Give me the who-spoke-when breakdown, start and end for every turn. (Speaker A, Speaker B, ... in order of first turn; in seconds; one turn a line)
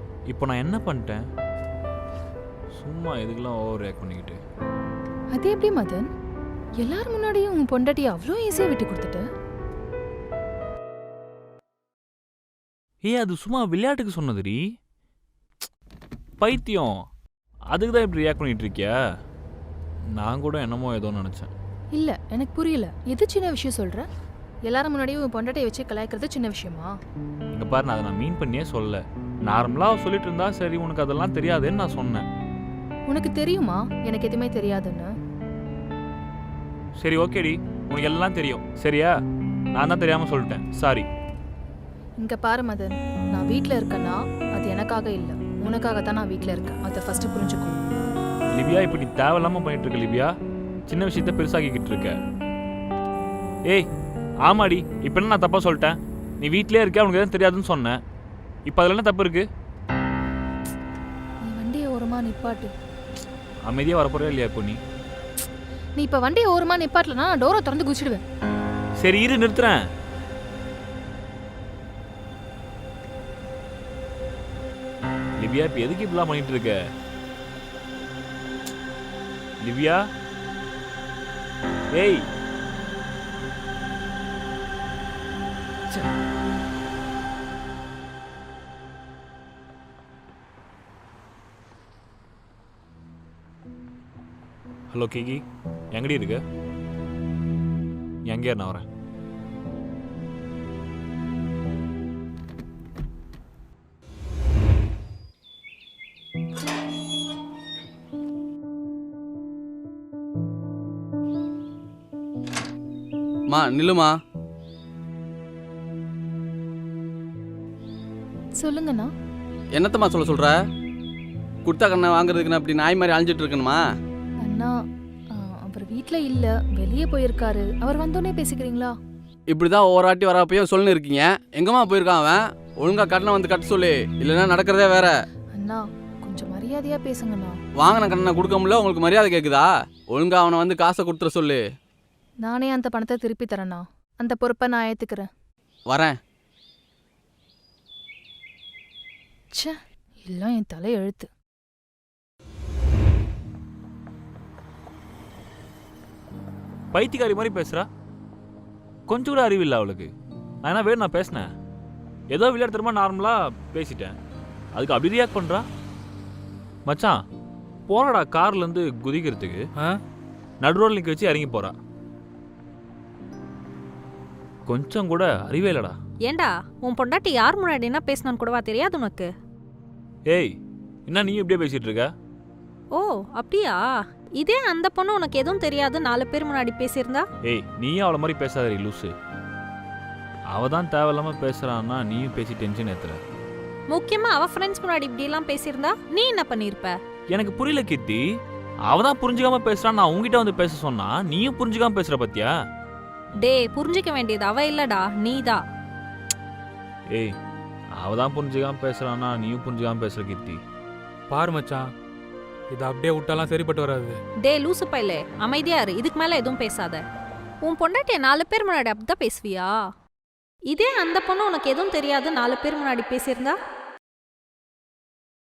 Speaker A: 0.3-1.2
Speaker A: 2.7-4.4
Speaker B: 5.3-6.1
Speaker B: 6.8-9.2
Speaker A: 13.0-14.6
Speaker A: 16.4-16.9
Speaker A: 17.7-18.9
Speaker A: 20.2-21.5
Speaker B: 21.9-24.0
Speaker B: 24.7-26.9
Speaker A: 27.5-32.2
Speaker B: 33.1-35.1
Speaker A: 37.0-39.1
Speaker A: 39.7-41.0
Speaker B: 42.2-47.8
Speaker A: 48.5-50.3
Speaker A: 50.9-52.2
Speaker A: 54.4-58.0
Speaker A: 58.6-59.5
Speaker B: 61.5-62.7
Speaker A: 63.6-64.8
Speaker B: 66.0-68.2
Speaker A: 69.0-69.8
Speaker A: 75.4-76.8
Speaker A: 79.6-80.0
Speaker A: 81.9-82.2
Speaker A: 94.9-96.4
Speaker A: 98.2-98.8
Speaker C: 113.5-114.1
Speaker B: 118.6-119.1
Speaker C: 119.7-120.5
Speaker C: 121.6-123.8
Speaker B: 124.4-124.7
Speaker B: 125.3-128.9
Speaker C: 129.5-135.1
Speaker B: 135.6-137.6
Speaker C: 137.8-141.6
Speaker B: 142.4-145.3
Speaker C: 145.9-146.1
Speaker B: 150.3-151.3
Speaker A: 156.9-157.8
Speaker A: 159.1-160.1
Speaker A: 160.6-161.5
Speaker A: 162.3-164.2
Speaker A: 164.7-165.6
Speaker A: 166.8-167.2
Speaker A: 167.9-169.6
Speaker A: 170.6-171.7
Speaker A: 174.7-175.9
Speaker D: 176.2-179.3
Speaker A: 180.3-180.5
Speaker A: 181.1-182.1
Speaker D: 182.9-187.2
Speaker A: 187.4-189.1
Speaker A: 190.5-193.2
Speaker D: 193.9-196.9
Speaker A: 197.3-198.2
Speaker A: 198.8-202.5
Speaker D: 203.4-205.6
Speaker A: 208.0-210.6
Speaker E: 211.3-211.9
Speaker E: 212.7-214.2
Speaker D: 214.4-217.0
Speaker D: 217.6-219.8
Speaker D: 220.7-223.6